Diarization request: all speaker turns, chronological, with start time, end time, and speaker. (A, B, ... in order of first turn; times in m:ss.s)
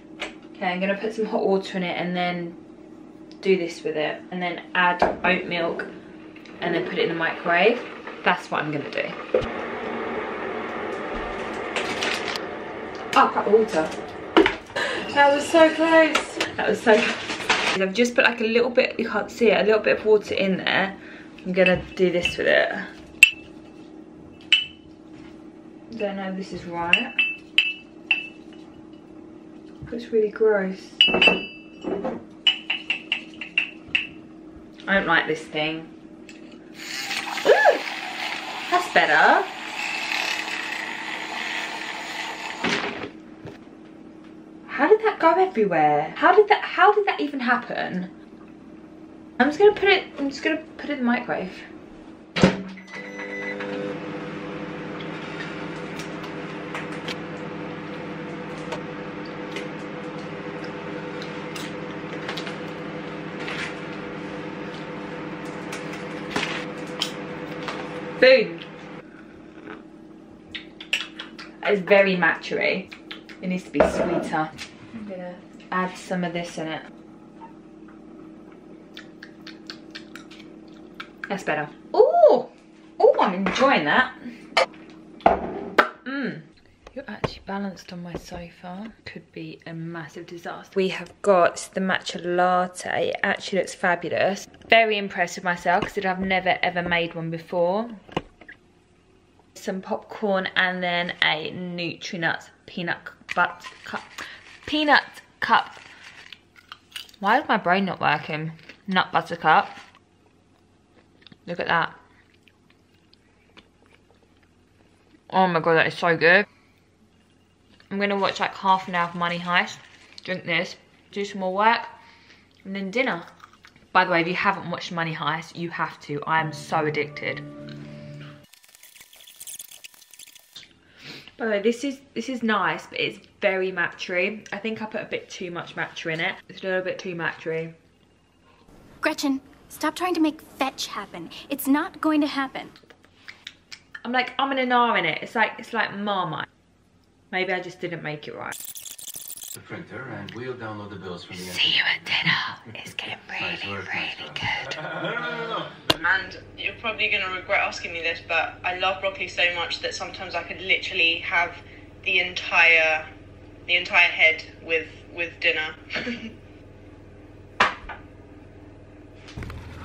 0:00.5-0:02.6 A
0:03.4-0:05.9 A
0:06.6-0:09.2 A
0:13.1-0:13.9 A
0:14.8-0:22.9 A
0:25.9-0:27.1 A
0:29.8-0:31.0 A
0:34.8-0:35.9 A
0:37.4-0:37.9 A
0:38.7-0:39.5 A
0:44.6-0:48.1 A
0:49.4-0:51.7 A
1:08.2-1:08.6 A
1:11.6-1:12.9 A
1:13.4-1:16.9 A
1:21.3-1:24.1 A
1:26.0-1:38.0 A
1:39.5-1:44.1 A
1:44.6-1:45.8 A
1:47.2-1:49.8 A
1:51.4-1:51.9 A
1:55.3-1:56.5 A
1:57.9-2:01.9 A
2:02.6-2:03.3 A
2:03.9-2:07.4 A
2:11.4-2:17.7 A
2:19.0-2:22.7 B
2:24.0-2:26.5 A
2:27.3-2:28.5 A
2:29.6-2:32.2 C
2:31.4-2:34.8 A
2:33.3-2:35.7 C
2:36.0-2:43.0 D
2:43.7-2:46.3 D